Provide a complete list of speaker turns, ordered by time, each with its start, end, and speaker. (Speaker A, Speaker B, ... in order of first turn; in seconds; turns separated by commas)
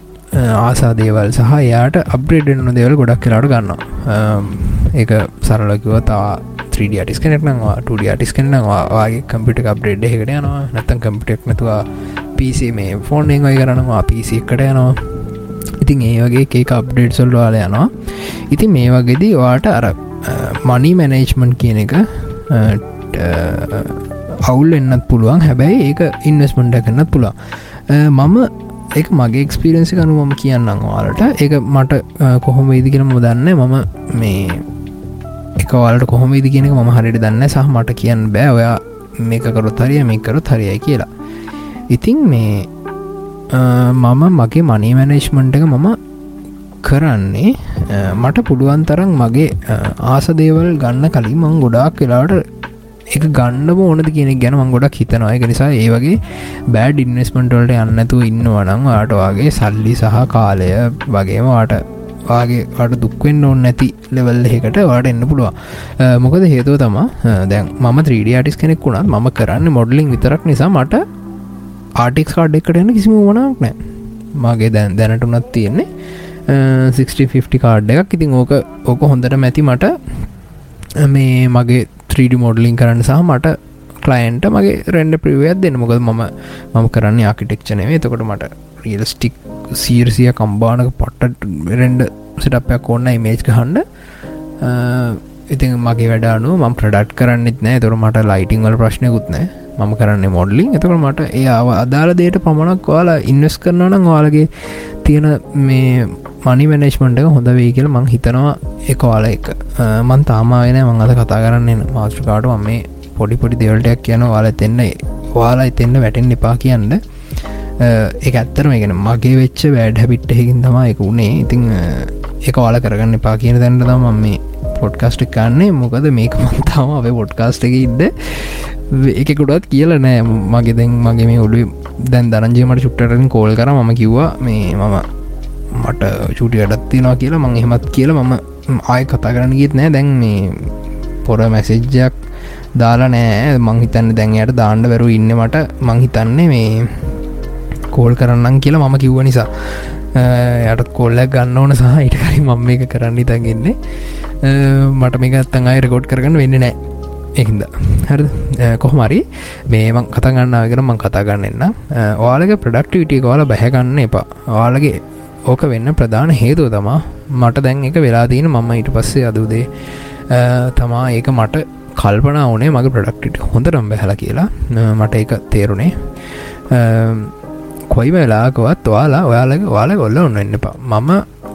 Speaker A: 0.3-15.0, Speaker A: 15.8-34.7, Speaker A: 35.6-41.1, Speaker A: 41.9-42.7, Speaker A: 43.5-46.0, Speaker A: 46.8-52.4, Speaker A: 53.1-71.0, Speaker A: 72.0-73.8, Speaker A: 74.4-75.9, Speaker A: 76.5-79.9, Speaker A: 81.0-93.8, Speaker A: 94.6-117.0, Speaker A: 117.8-135.1, Speaker A: 135.7-140.7, Speaker A: 141.2-142.2, Speaker A: 142.8-147.2, Speaker A: 147.9-153.8, Speaker A: 154.3-156.8, Speaker A: 157.3-177.3, Speaker A: 177.9-181.2